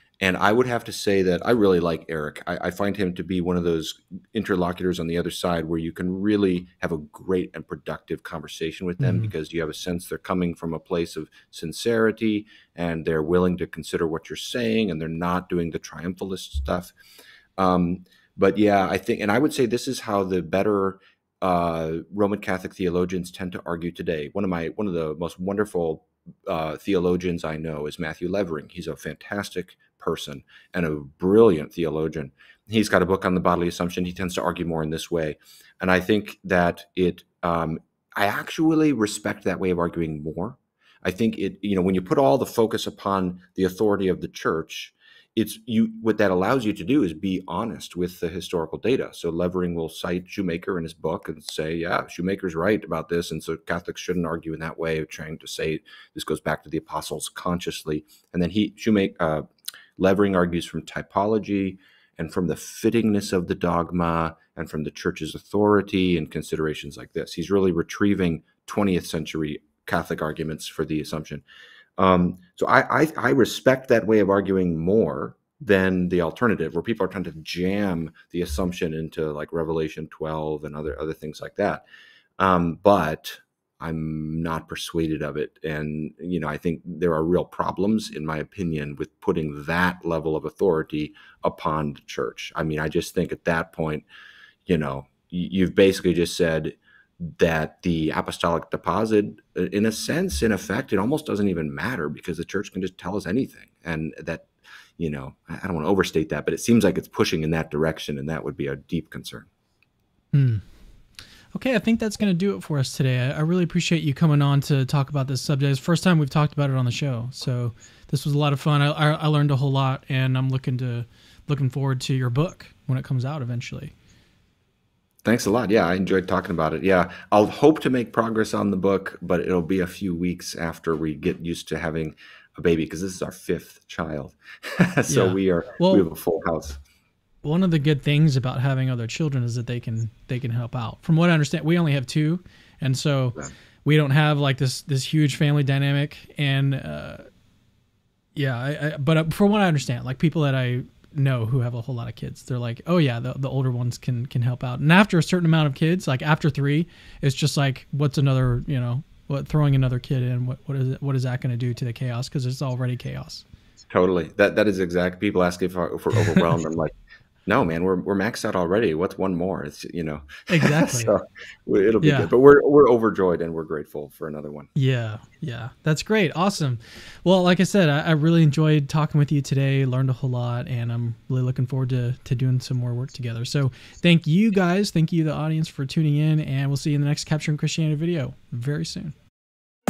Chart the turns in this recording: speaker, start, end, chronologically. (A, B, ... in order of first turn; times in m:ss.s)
0:00.2-0:16.9 A
0:09.0-0:09.3 B
0:17.6-0:59.5 A
1:00.0-1:11.4 A
1:12.0-1:21.8 A
1:22.4-1:34.1 A
1:34.7-1:49.5 A
1:50.3-1:50.6 B
1:51.5-2:03.9 B
2:05.2-2:16.8 A
2:15.1-2:16.1 B
2:17.4-2:27.3 B
2:28.4-2:43.4 B
2:43.9-2:47.0 A
2:47.5-2:54.7 A
2:50.5-2:51.1 B
2:52.0-2:52.3 B
2:54.8-3:09.2 B